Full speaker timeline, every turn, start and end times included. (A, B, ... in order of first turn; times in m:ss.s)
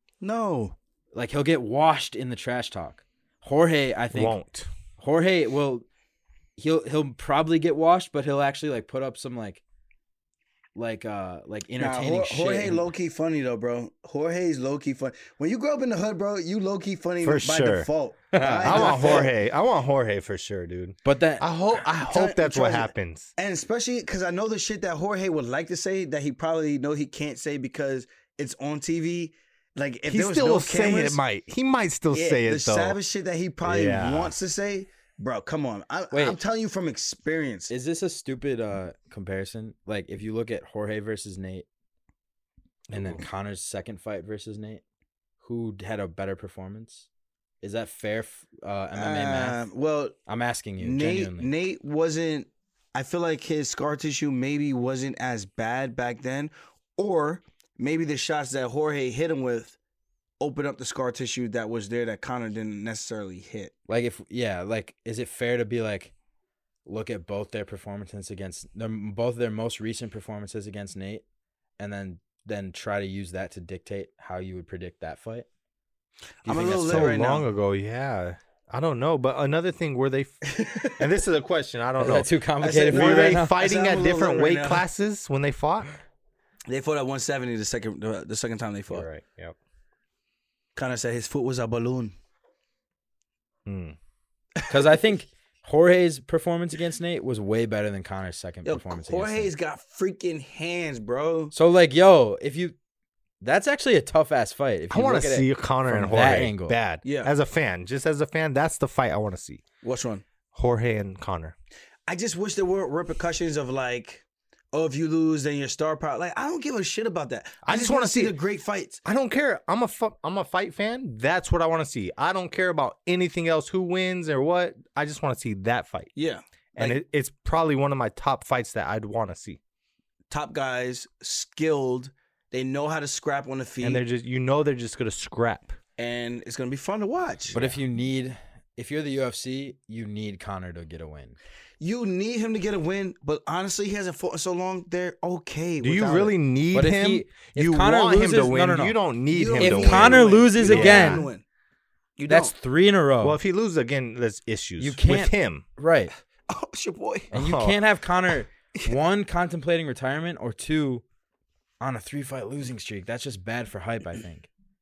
0:00.2-0:00.8 A
0:01.1-0:04.4 B
0:04.1-0:04.7 C
0:05.0-0:05.9 B
0:06.6-0:09.6 B
0:10.8-0:12.8 B
0:11.8-0:19.3 A
0:17.2-0:17.9 C
0:18.3-0:19.2 B
0:18.6-0:23.3 C
0:21.0-0:21.5 B
0:21.8-0:31.2 A
0:30.1-0:33.0 C
0:32.1-0:37.7 A
0:33.6-0:34.4 C
0:36.1-0:36.4 B
0:37.7-0:41.7 B
0:42.9-0:43.2 C
0:42.9-0:44.8 B
0:45.4-0:47.1 B
0:47.6-0:49.6 B
0:49.0-0:50.2 A
0:50.3-0:51.5 B
0:50.8-0:59.8 A
1:00.4-1:03.7 A
1:03.9-1:06.1 B
1:06.9-1:11.2 B
1:11.8-1:15.5 B
1:16.4-1:17.2 B
1:16.4-1:17.5 A
1:16.9-1:20.5 C
1:20.4-1:21.0 A
1:21.0-1:22.3 C
1:22.0-1:23.6 B
1:22.6-1:24.8 A
1:22.8-1:25.9 C
1:26.7-1:29.1 A
1:28.9-1:29.6 C
1:30.8-1:32.1 A
1:33.7-1:34.0 C
1:34.7-1:39.5 B
1:38.6-1:41.5 A
1:41.5-1:42.8 B
1:43.4-1:46.8 B
1:44.9-1:49.6 C
1:47.0-1:47.3 A
1:49.8-1:50.2 A
1:50.5-1:51.6 C
1:52.1-1:59.0 A
1:57.6-1:58.4 C
1:59.0-2:06.1 C
2:06.2-2:07.0 A
2:06.8-2:09.6 C
2:10.3-2:14.0 A
2:13.8-2:15.8 C
2:16.0-2:17.6 A
2:17.5-2:17.8 C
2:17.6-2:21.4 B
2:21.8-2:26.3 A
2:25.8-2:31.3 C
2:26.7-2:29.0 B
2:29.3-2:31.4 A
2:29.6-2:31.2 B
2:32.2-2:32.5 A
2:32.3-2:33.4 B
2:33.2-2:35.6 C
2:34.8-2:36.1 B
2:36.5-2:37.3 A
2:37.3-2:37.8 C
2:37.3-2:41.0 B
2:41.8-2:44.5 B